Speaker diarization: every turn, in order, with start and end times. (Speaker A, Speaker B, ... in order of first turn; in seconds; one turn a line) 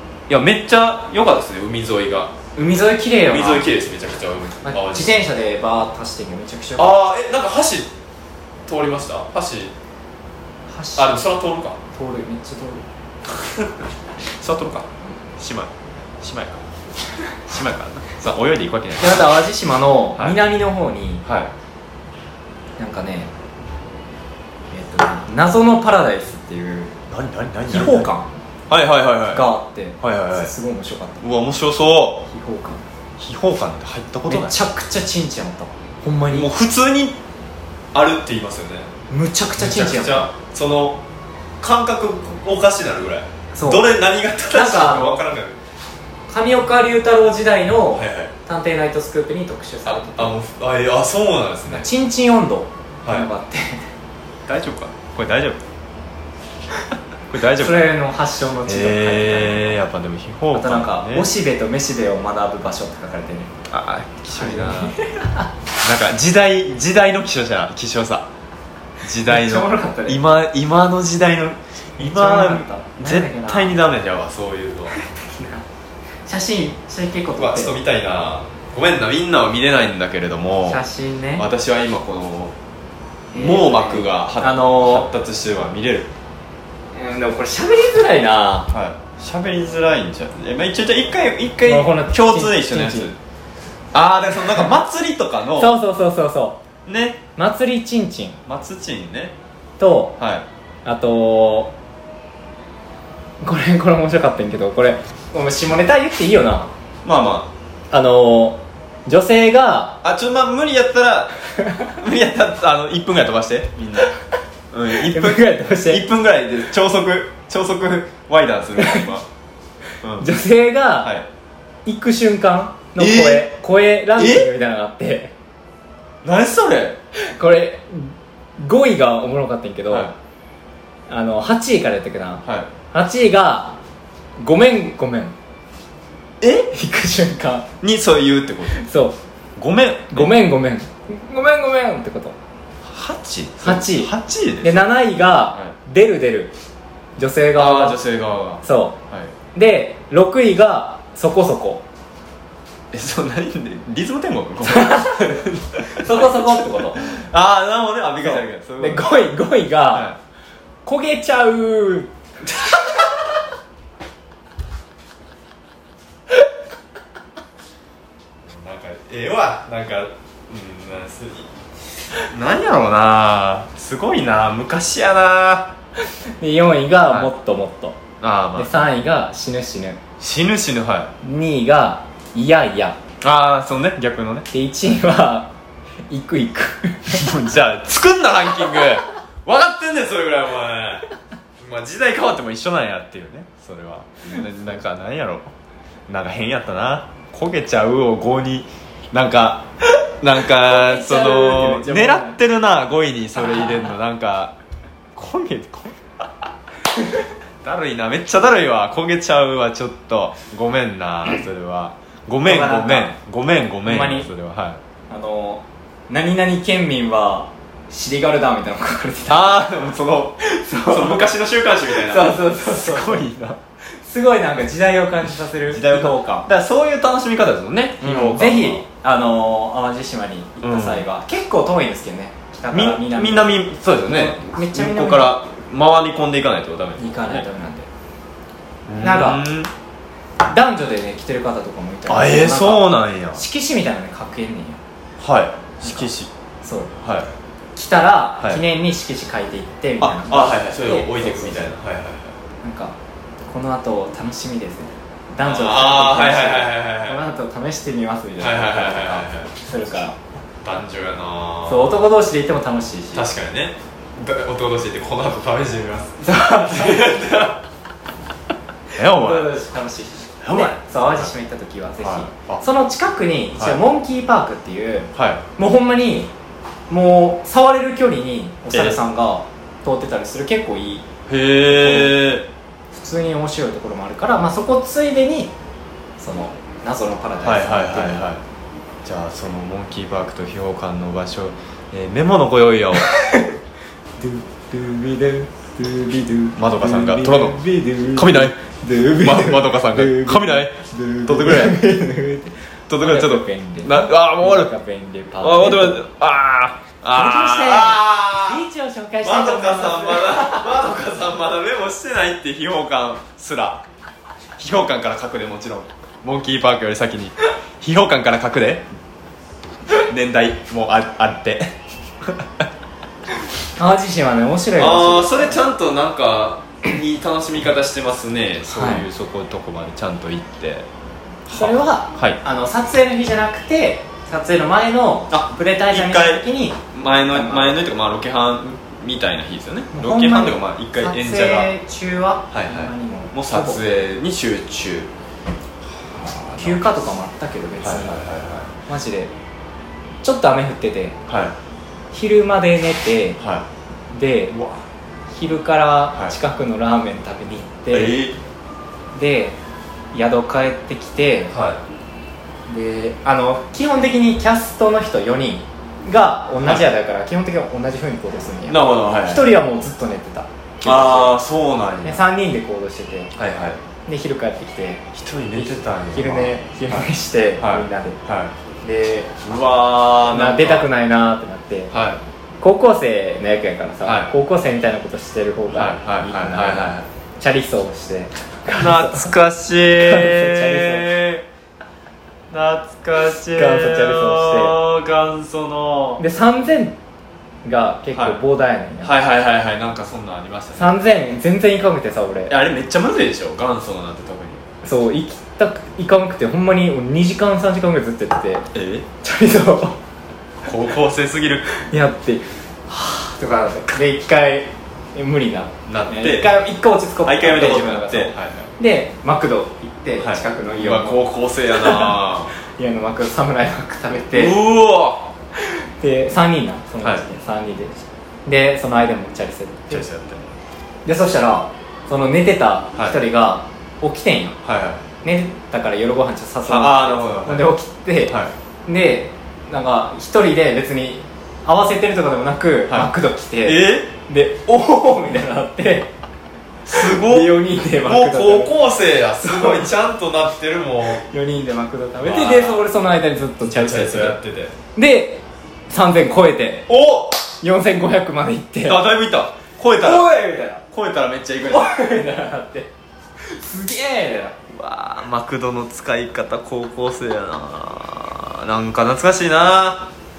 Speaker A: 0.3-2.4
Speaker B: 2.6-3.7
Speaker A: 3.3-5.3
Speaker B: 4.6-7.0
Speaker A: 6.8-7.9
Speaker A: 8.7-9.7
Speaker B: 10.7-11.2
Speaker A: 11.0-11.8
Speaker B: 11.9-12.8
Speaker A: 13.4-13.7
Speaker A: 14.2-16.6
Speaker A: 17.5-19.3
Speaker B: 19.0-21.2
Speaker A: 21.2-21.5
Speaker B: 22.8-23.3
Speaker B: 24.7-26.9
Speaker A: 27.1-28.1
Speaker B: 27.7-28.3
Speaker A: 28.7-29.5
Speaker B: 29.3-31.2
Speaker A: 30.0-30.5
Speaker A: 31.2-32.3
Speaker B: 32.3-32.9
Speaker A: 33.2-34.6
Speaker B: 34.3-36.5
Speaker A: 36.3-37.2
Speaker A: 37.9-38.9
Speaker B: 39.1-40.3
Speaker A: 39.6-41.0
Speaker A: 41.6-45.6
Speaker B: 43.5-43.9
Speaker B: 44.5-45.2
Speaker B: 46.3-50.4
Speaker A: 48.0-48.3
Speaker A: 49.9-51.9
Speaker B: 51.7-53.9
Speaker A: 54.5-55.6
Speaker A: 57.3-57.9
Speaker B: 57.6-59.8
Speaker A: 58.7-61.3
Speaker B: 60.5-63.5
Speaker A: 63.7-65.0
Speaker B: 64.3-65.5
Speaker A: 65.8-68.3
Speaker A: 69.0-75.0
Speaker B: 69.2-70.2
Speaker B: 72.0-73.8
Speaker B: 74.9-75.6
Speaker B: 76.3-77.8
Speaker A: 77.4-80.8
Speaker B: 80.7-81.5
Speaker A: 81.4-82.5
Speaker B: 83.3-85.1
Speaker A: 83.3-86.1
Speaker B: 86.9-88.7
Speaker A: 88.7-93.2
Speaker B: 91.7-93.1
Speaker A: 93.9-95.8
Speaker B: 95.6-96.6
Speaker A: 96.9-97.2
Speaker B: 97.4-98.4
Speaker A: 98.5-99.4
Speaker B: 99.8-100.2
Speaker A: 100.2-100.5
Speaker B: 100.8-101.7
Speaker B: 103.4-106.7
Speaker A: 107.0-107.5
Speaker B: 107.9-110.0
Speaker A: 110.0-111.3
Speaker B: 111.6-111.9
Speaker A: 111.9-114.1
Speaker A: 114.7-119.3
Speaker B: 114.9-116.1
Speaker B: 118.8-119.1
Speaker A: 120.0-120.3
Speaker B: 120.2-121.1
Speaker A: 121.0-121.3
Speaker B: 121.9-125.3
Speaker A: 123.0-123.5
Speaker A: 124.2-124.5
Speaker A: 126.2-127.0
Speaker B: 127.2-130.1
Speaker A: 129.9-130.2
Speaker B: 131.1-133.8
Speaker A: 132.4-132.7
Speaker B: 134.4-135.4
Speaker A: 136.4-136.7
Speaker B: 136.7-137.7
Speaker A: 137.8-138.8
Speaker B: 138.7-139.2
Speaker A: 139.6-140.3
Speaker B: 140.1-142.4
Speaker A: 142.8-144.9
Speaker B: 143.6-146.5
Speaker B: 147.2-148.0
Speaker A: 147.6-149.3
Speaker B: 148.6-149.0
Speaker B: 149.5-151.8
Speaker A: 152.9-159.2
Speaker B: 154.6-157.2
Speaker B: 158.2-160.1
Speaker A: 159.9-160.2
Speaker B: 160.8-163.0
Speaker A: 168.4-171.5
Speaker A: 172.2-175.7
Speaker B: 176.4-178.0
Speaker A: 178.2-178.7
Speaker B: 178.6-180.0
Speaker A: 180.2-181.1
Speaker B: 181.2-183.0
Speaker A: 183.2-184.5
Speaker B: 184.5-185.5
Speaker B: 186.1-187.3
Speaker A: 187.1-191.1
Speaker A: 191.6-195.5
Speaker A: 196.1-199.7
Speaker A: 200.2-204.6
Speaker B: 200.5-202.4
Speaker B: 203.4-203.9
Speaker A: 205.2-206.3
Speaker A: 207.6-214.8
Speaker B: 212.4-213.2
Speaker B: 213.8-214.3
Speaker B: 215.1-219.6
Speaker A: 219.3-223.6
Speaker B: 220.4-221.3
Speaker B: 221.9-223.3
Speaker B: 224.0-226.5
Speaker A: 225.7-228.8
Speaker B: 228.0-235.3
Speaker A: 230.6-231.1
Speaker A: 232.7-237.5
Speaker B: 237.0-237.9
Speaker A: 238.9-239.7
Speaker B: 239.0-239.5
Speaker B: 240.5-244.8
Speaker A: 242.1-243.4
Speaker A: 245.2-246.3
Speaker B: 245.8-246.1
Speaker B: 246.6-246.9
Speaker A: 247.0-247.3
Speaker B: 247.8-251.8
Speaker A: 250.0-252.4
Speaker B: 252.6-260.2
Speaker A: 255.4-257.2
Speaker A: 258.4-259.5
Speaker A: 260.6-262.1
Speaker B: 261.7-263.3
Speaker A: 263.1-267.6
Speaker B: 266.2-267.1
Speaker A: 268.9-269.5
Speaker B: 269.0-276.3
Speaker A: 270.4-271.3
Speaker A: 272.0-272.6
Speaker A: 275.1-275.4
Speaker B: 276.9-281.1
Speaker A: 278.7-279.0
Speaker A: 281.3-282.5
Speaker B: 281.7-282.2
Speaker B: 282.9-285.5
Speaker B: 286.2-288.2
Speaker A: 287.4-288.4
Speaker A: 289.0-293.1
Speaker B: 293.0-293.6
Speaker B: 294.2-306.0
Speaker A: 296.6-297.6
Speaker A: 298.1-298.6
Speaker A: 299.1-301.8
Speaker A: 302.9-304.7
Speaker A: 305.4-308.6
Speaker B: 307.1-310.9
Speaker A: 309.2-313.8
Speaker A: 314.6-318.9
Speaker A: 319.9-322.7
Speaker B: 323.8-325.6
Speaker A: 324.8-330.9
Speaker B: 328.7-329.1
Speaker A: 331.5-332.4
Speaker B: 331.5-337.8
Speaker A: 335.3-341.7
Speaker B: 339.9-343.8
Speaker A: 342.5-345.1
Speaker A: 346.1-346.8
Speaker B: 346.6-348.2
Speaker A: 347.8-348.7
Speaker B: 348.9-349.3
Speaker B: 350.2-351.2
Speaker A: 351.3-351.6
Speaker B: 352.1-353.4
Speaker A: 353.4-353.7
Speaker B: 354.1-354.8
Speaker B: 355.3-358.2
Speaker A: 357.9-358.4
Speaker B: 359.1-359.6
Speaker B: 360.1-361.5
Speaker A: 361.5-361.8
Speaker B: 362.7-371.4
Speaker A: 366.6-366.9
Speaker A: 368.7-369.5
Speaker A: 370.8-372.2
Speaker B: 372.0-373.3
Speaker A: 373.4-373.8
Speaker B: 374.1-378.2
Speaker A: 375.1-377.1
Speaker A: 377.6-378.5
Speaker B: 378.8-379.4
Speaker A: 379.4-380.9
Speaker B: 380.3-381.9
Speaker A: 381.9-382.2
Speaker B: 382.6-389.3
Speaker A: 384.1-384.3
Speaker A: 385.7-387.1
Speaker A: 388.7-391.4
Speaker B: 390.0-391.1
Speaker A: 392.5-396.2
Speaker B: 393.5-394.8
Speaker B: 396.2-397.0
Speaker B: 397.6-399.1
Speaker A: 398.1-398.4
Speaker A: 399.0-401.0
Speaker B: 400.8-402.6
Speaker A: 402.5-404.6
Speaker B: 404.8-408.7
Speaker A: 408.7-409.1
Speaker B: 409.2-410.0
Speaker A: 410.6-411.7
Speaker B: 411.7-421.2
Speaker A: 415.9-416.6
Speaker A: 417.2-418.7
Speaker A: 420.2-422.5
Speaker B: 421.7-424.6
Speaker A: 424.3-425.3
Speaker B: 425.6-430.1
Speaker A: 429.9-430.5
Speaker B: 431.1-434.6
Speaker A: 434.6-435.1
Speaker B: 435.2-446.1
Speaker A: 436.7-437.7
Speaker A: 438.3-438.5
Speaker A: 443.6-444.1
Speaker A: 446.9-451.3
Speaker B: 446.9-448.7
Speaker B: 449.4-449.9
Speaker B: 451.2-454.4
Speaker A: 452.2-452.9
Speaker A: 453.6-454.8
Speaker B: 454.9-456.9
Speaker A: 456.9-457.5
Speaker B: 457.6-459.0
Speaker A: 458.9-460.3
Speaker B: 460.0-460.8
Speaker A: 460.9-461.9
Speaker B: 461.7-462.9
Speaker B: 463.4-464.6
Speaker A: 464.7-470.1